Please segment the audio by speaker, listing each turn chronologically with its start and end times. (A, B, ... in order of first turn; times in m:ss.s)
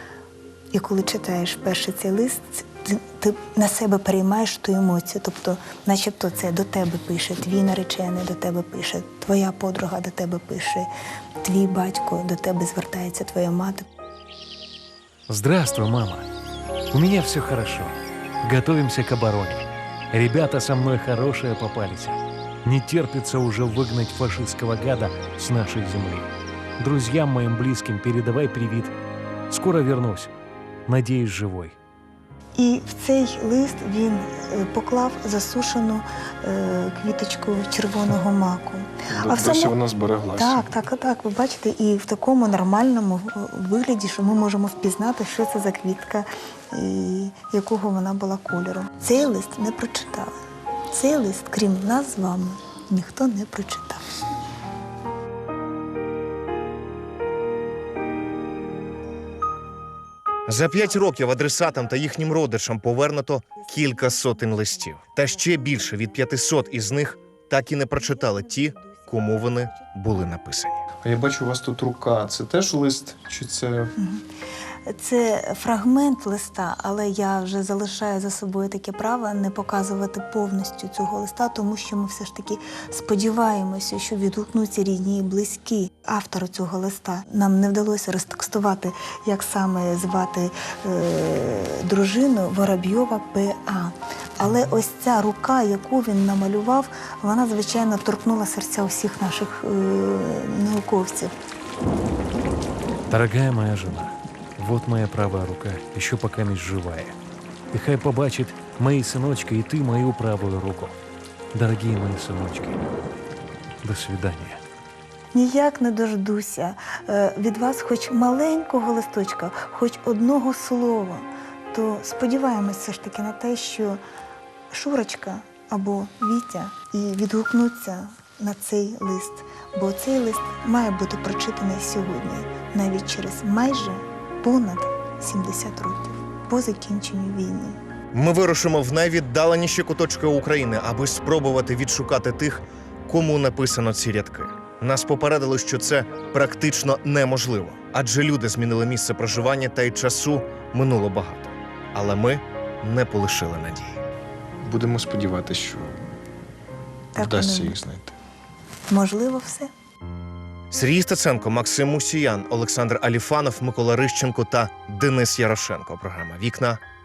0:00.7-0:10.9 A
0:11.4-0:13.8 A
0:15.3-0:16.2 B
0:16.9-0:28.9 B
0:29.5-0:30.3 B
0:30.9-0:31.8 B
0:32.6-0:39.8 A
0:39.1-0:40.7 C
0:40.3-0:50.4 A
0:50.9-0:54.1 A
1:00.5-1:10.8 D
1:03.9-1:07.3 A
1:08.0-1:09.8 A
1:11.0-1:13.9 C
1:14.0-1:14.2 A
1:14.9-1:41.3 A
1:43.1-1:47.1 B
1:47.7-1:51.0 B
1:51.5-1:52.8 B
1:53.8-1:54.6 B
1:55.3-2:04.0 A
2:04.7-2:17.8 A
2:18.1-2:34.0 D
2:34.6-2:36.0 C
2:37.1-2:37.8 A
2:37.2-2:38.1 C
2:38.9-2:39.7 A
2:40.7-2:46.8 D